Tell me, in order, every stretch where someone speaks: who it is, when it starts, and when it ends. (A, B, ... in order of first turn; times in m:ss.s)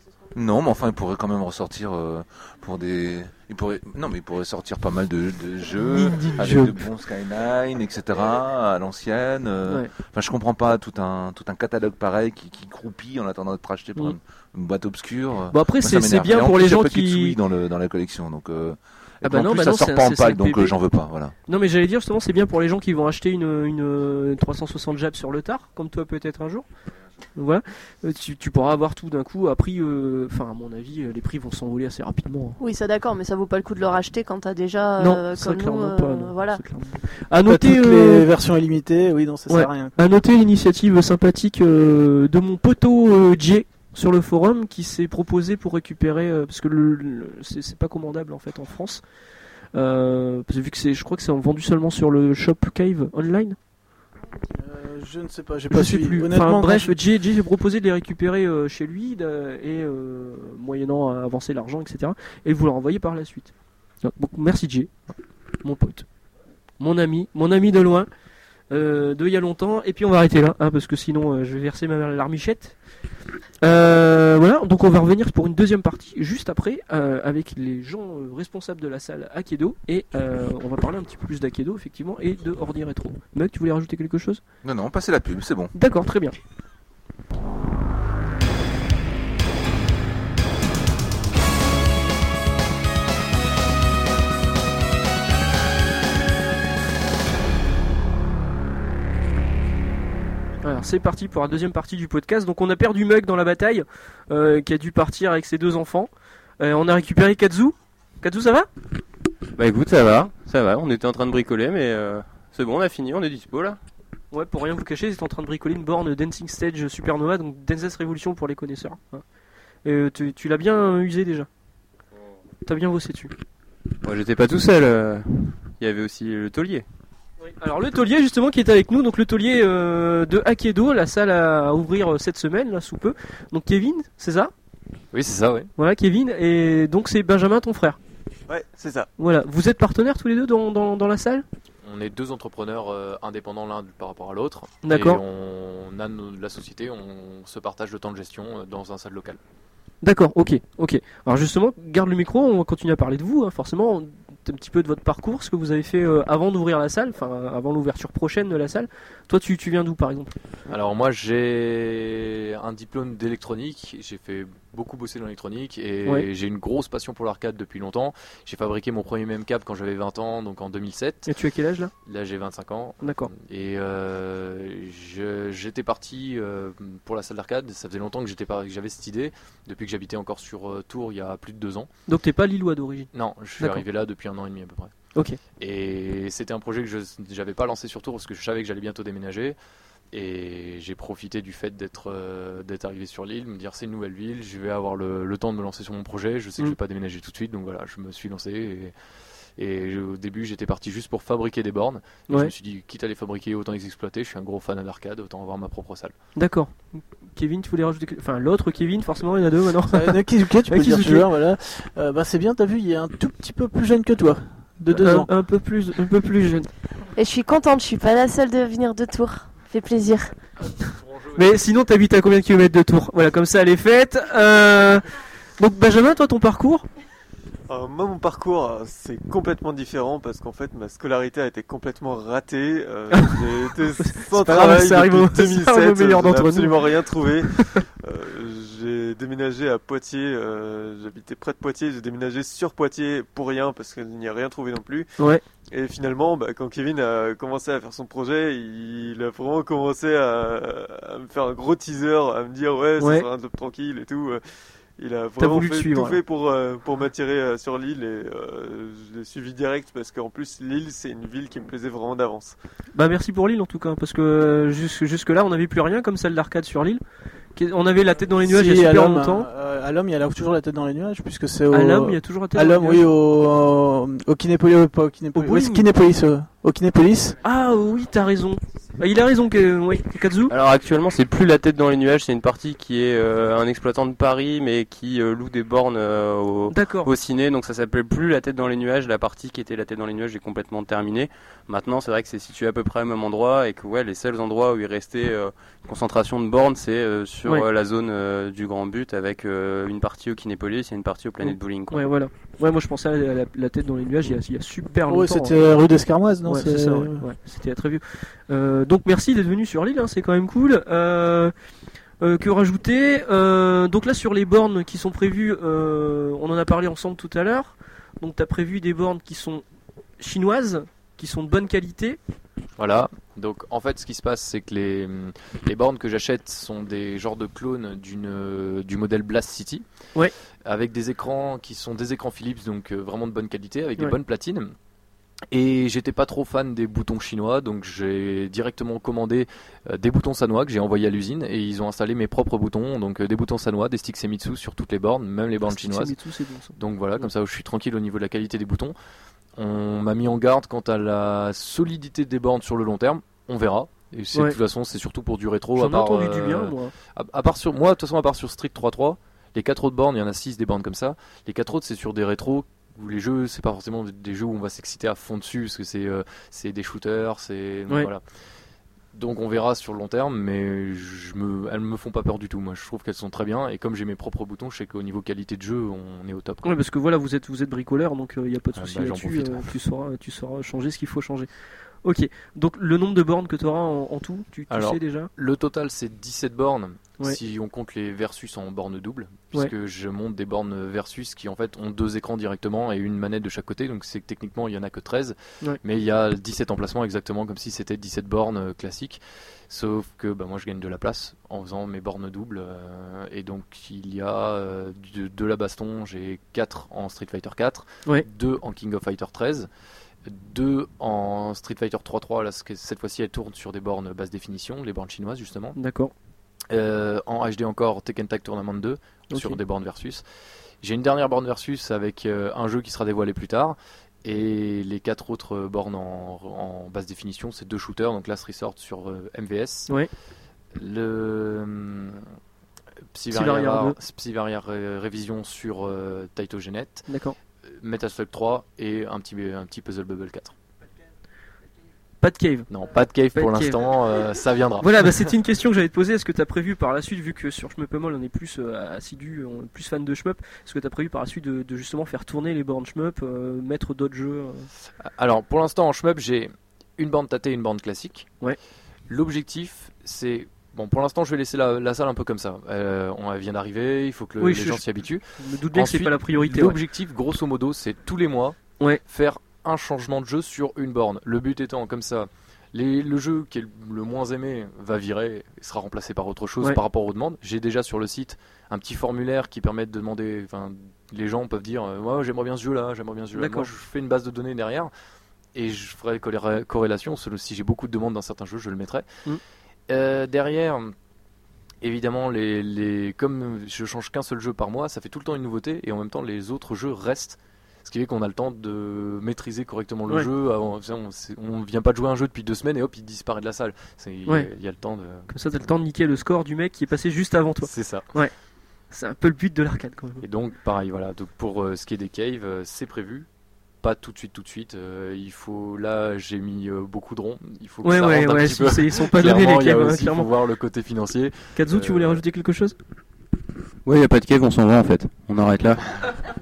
0:00.3-0:21.3 A
0:05.8-0:06.8 B
0:15.5-0:17.4 B
0:19.2-0:20.7 B
0:21.5-0:26.6 B
0:27.4-0:32.6 B
0:32.6-0:36.6 C
0:35.0-0:38.3 B
0:37.4-0:39.9 D
0:39.5-0:49.0 B
0:49.7-0:53.6 B
0:54.5-0:56.9 D
0:55.7-1:03.5 B
1:04.0-1:04.9 B
1:05.6-1:06.0 B
1:06.8-1:08.1 B
1:08.7-1:12.8 B
1:13.6-1:24.4 B
1:24.6-1:25.7 A
1:25.7-1:26.4 B
1:40.6-1:48.7 B
1:49.5-1:53.8 E
1:54.3-1:59.2 B
1:59.8-2:01.5 B
2:02.6-2:03.3 B
2:04.0-2:06.8 E
2:07.4-2:14.5 B
2:15.1-2:15.7 F
2:15.8-2:18.0 B
2:18.5-2:19.1 G
2:19.2-2:21.4 B
2:21.8-2:29.4 F
2:24.8-2:25.2 B
2:30.0-2:40.3 B
2:40.7-2:51.3 F
2:51.3-2:51.9 B
2:52.0-3:01.9 F
2:53.0-2:53.3 B
3:02.1-3:03.8 B
3:03.1-3:04.9 F
3:05.6-3:09.6 F
3:10.1-3:18.9 F
3:19.6-3:26.1 F
3:26.4-3:31.3 B
3:29.9-3:35.3 D
3:34.9-3:36.7 B
3:37.2-3:40.3 C
3:41.3-3:45.0 B
3:45.6-3:46.8 B
3:47.7-4:05.1 G
3:53.1-3:56.9 B
3:57.5-3:57.8 B
4:05.7-4:14.4 G
4:13.0-4:13.2 B
4:15.0-4:22.6 G
4:15.4-4:16.2 B
4:22.9-4:27.0 B
4:27.6-4:29.5 B
4:28.4-4:37.4 D
4:31.7-4:33.0 B
4:35.3-4:35.8 B
4:37.4-4:40.5 B
4:40.5-5:02.1 E
4:46.7-4:47.1 B
5:01.4-5:05.6 B
5:05.1-5:07.3 D
5:06.4-5:11.5 B
5:12.2-5:19.6 B
5:20.2-5:22.2 B
5:22.8-5:29.8 F
5:30.6-5:34.7 F
5:35.5-5:46.2 F
5:45.6-5:47.2 B
5:46.8-5:48.9 F
5:49.6-6:08.2 F
5:55.8-5:56.9 B
6:09.1-6:16.8 F
6:16.6-6:21.5 B
6:18.7-6:19.7 F
6:22.0-6:25.3 B
6:24.7-6:49.7 F
6:50.2-6:55.8 F
6:55.7-6:56.1 B
6:56.7-7:00.2 F
6:59.3-6:59.6 B
7:00.8-7:09.9 F
7:10.8-7:12.2 F
7:13.1-7:17.0 F
7:13.3-7:14.0 B
7:17.1-7:17.4 B
7:17.7-7:20.5 F
7:22.2-7:22.7 B
7:22.7-7:25.3 F
7:23.3-7:23.8 B
7:24.8-7:34.7 B
7:35.0-7:38.3 F
7:39.1-8:04.9 F
7:44.4-7:44.8 B
7:45.4-7:46.8 B
8:03.3-8:03.7 B
8:05.5-8:09.0 F
8:09.9-8:10.9 F
8:11.8-8:25.3 F
8:25.3-8:28.3 B
8:27.6-8:28.1 F
8:28.9-8:30.2 B
8:30.2-8:33.3 F
8:33.8-8:42.2 F
8:37.8-8:40.3 B
8:41.6-8:42.8 B
8:43.8-8:45.8 E